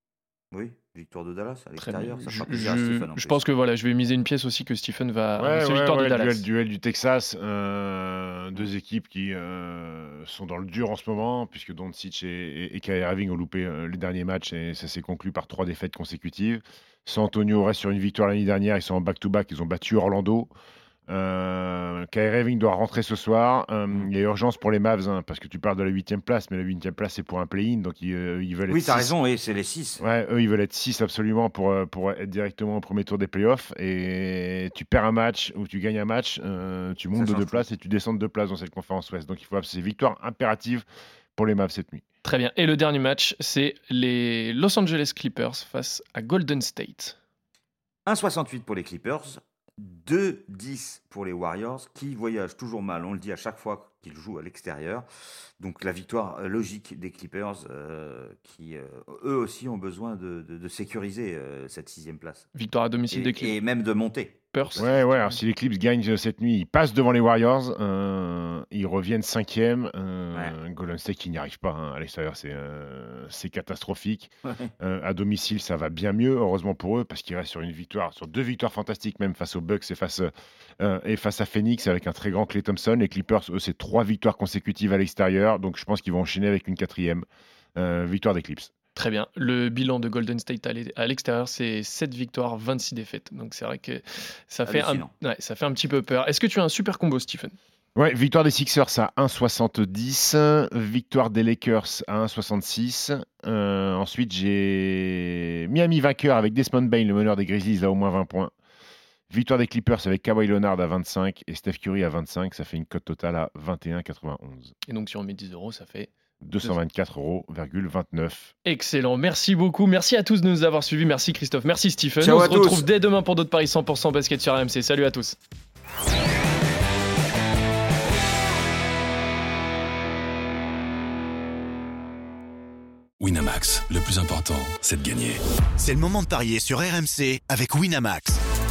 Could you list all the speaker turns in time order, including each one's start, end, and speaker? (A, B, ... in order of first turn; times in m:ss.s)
0:00.5-0:03.4 A
0:01.8-0:06.4 B
0:05.4-0:20.5 C
0:21.1-0:29.1 C
0:28.7-0:30.0 A
0:30.0-0:40.8 C
0:37.1-0:37.6 A
0:41.4-0:42.0 C
0:42.2-0:47.2 B
0:48.0-0:55.0 A
0:55.6-1:02.5 A
1:02.5-1:03.6 B
1:03.1-1:04.9 A
1:04.5-1:05.3 B
1:04.8-1:28.7 C
1:28.9-1:37.5 B
1:34.7-1:35.1 A
1:37.9-1:48.5 C
1:49.3-1:54.7 C
1:54.8-1:56.1 B
1:56.4-1:58.5 C
1:58.6-2:05.4 B
2:02.2-2:02.9 A
2:13.2-2:15.4 D
2:15.8-2:18.4 E